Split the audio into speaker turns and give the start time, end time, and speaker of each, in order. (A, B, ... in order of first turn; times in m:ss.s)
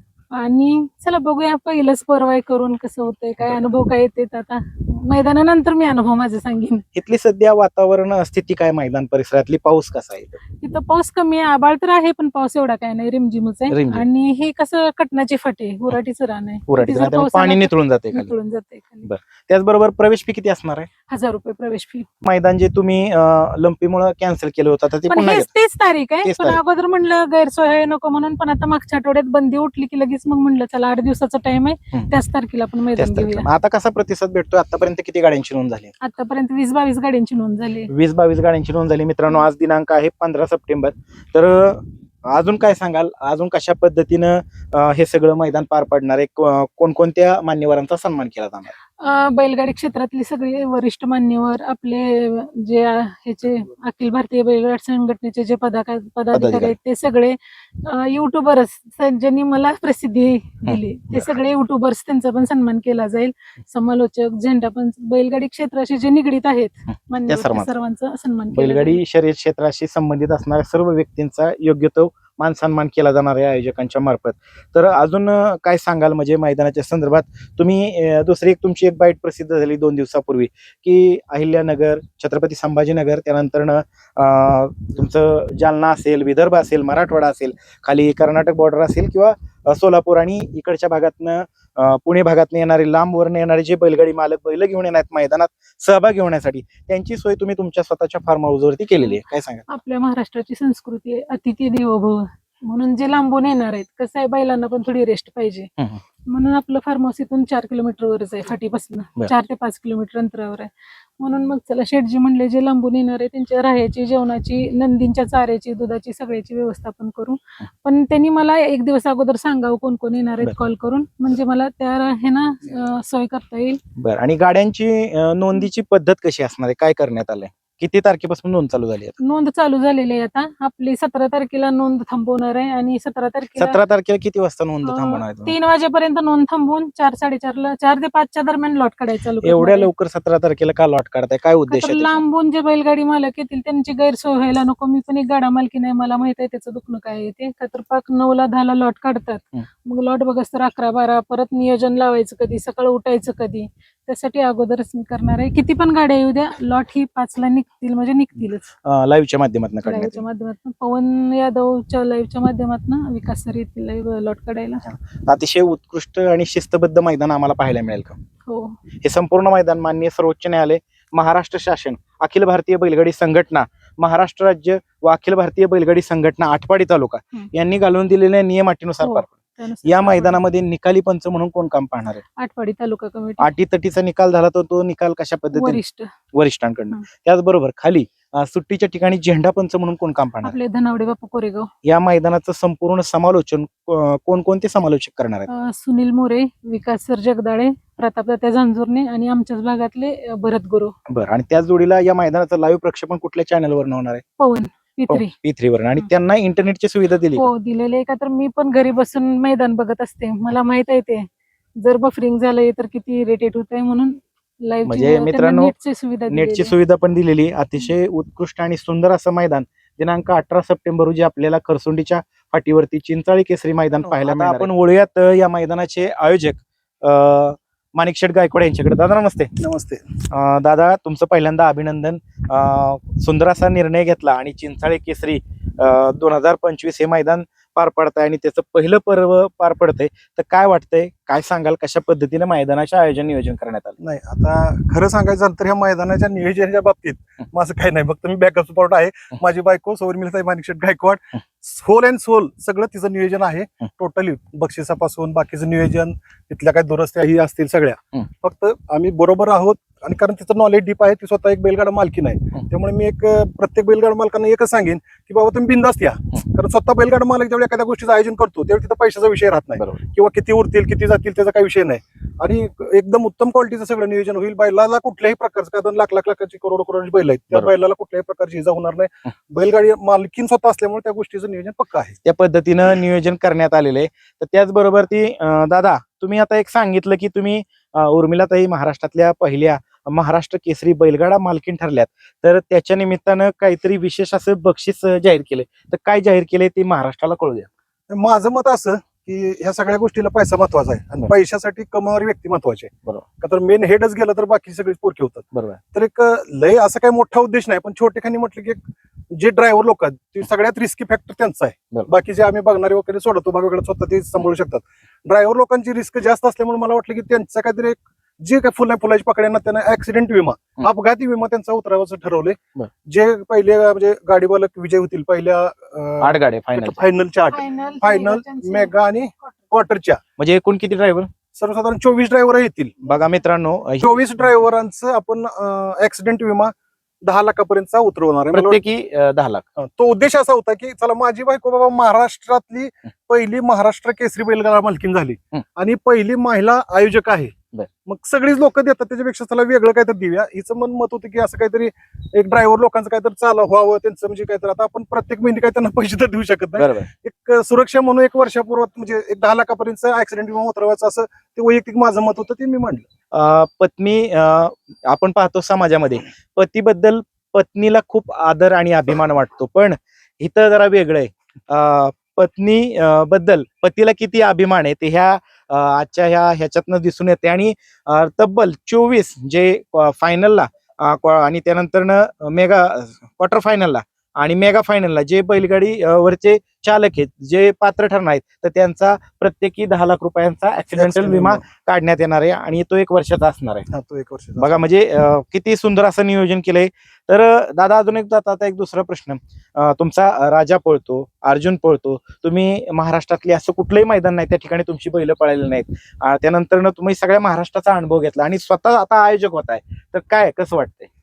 0:00.3-0:06.8 A
0:06.9-0:10.4 B
0:10.6-0:19.1 A
0:13.7-0:14.0 B
0:16.7-0:18.3 B
0:19.0-0:20.9 B
0:21.1-0:22.1 A
0:22.2-0:25.5 B
0:25.1-0:33.5 A
0:26.2-0:26.6 B
0:33.0-0:35.9 B
0:36.0-0:37.9 A
0:37.9-0:48.7 B
0:49.0-1:09.0 A
0:56.3-0:56.7 B
1:00.6-1:01.3 B
1:07.3-1:07.7 B
1:08.5-1:39.6 B
1:39.7-1:45.7 A
1:46.3-2:03.8 A
2:04.0-2:09.2 B
2:09.2-2:13.8 A
2:13.6-2:15.5 B
2:14.8-2:19.9 A
2:19.4-2:22.2 B
2:21.7-2:38.7 A
2:38.8-2:40.2 B
2:39.8-2:44.8 A
2:44.8-2:48.2 B
2:48.5-2:48.8 A
2:49.0-2:59.3 B
2:59.0-3:00.4 A
2:59.8-3:02.2 B
3:02.4-3:03.5 A
3:03.4-3:05.8 B
3:05.5-3:06.1 A
3:06.3-3:10.5 B
3:10.4-3:11.7 A
3:11.8-3:15.5 B
3:15.5-3:21.0 A
3:21.1-3:24.2 B
3:24.4-3:25.3 A
3:25.1-3:27.5 B
3:27.3-3:31.3 A
3:31.8-3:36.7 A
3:34.8-3:35.7 B
3:36.3-3:49.5 B
3:49.6-3:50.1 C
3:50.2-4:04.0 B
4:04.0-4:42.2 C
4:42.2-4:57.7 B
4:58.1-5:30.2 C
5:05.5-5:05.8 B
5:26.2-5:27.0 B
5:27.5-5:29.5 A
5:30.4-5:31.3 B
5:31.6-5:33.0 C
5:33.0-5:34.1 B
5:34.0-5:38.8 C
5:38.5-5:39.6 B
5:39.8-5:47.5 C
5:48.1-6:03.1 C
5:56.8-5:57.1 B
6:03.3-6:33.9 B
6:30.9-6:31.6 C
6:33.9-6:34.8 C
6:34.6-6:51.1 B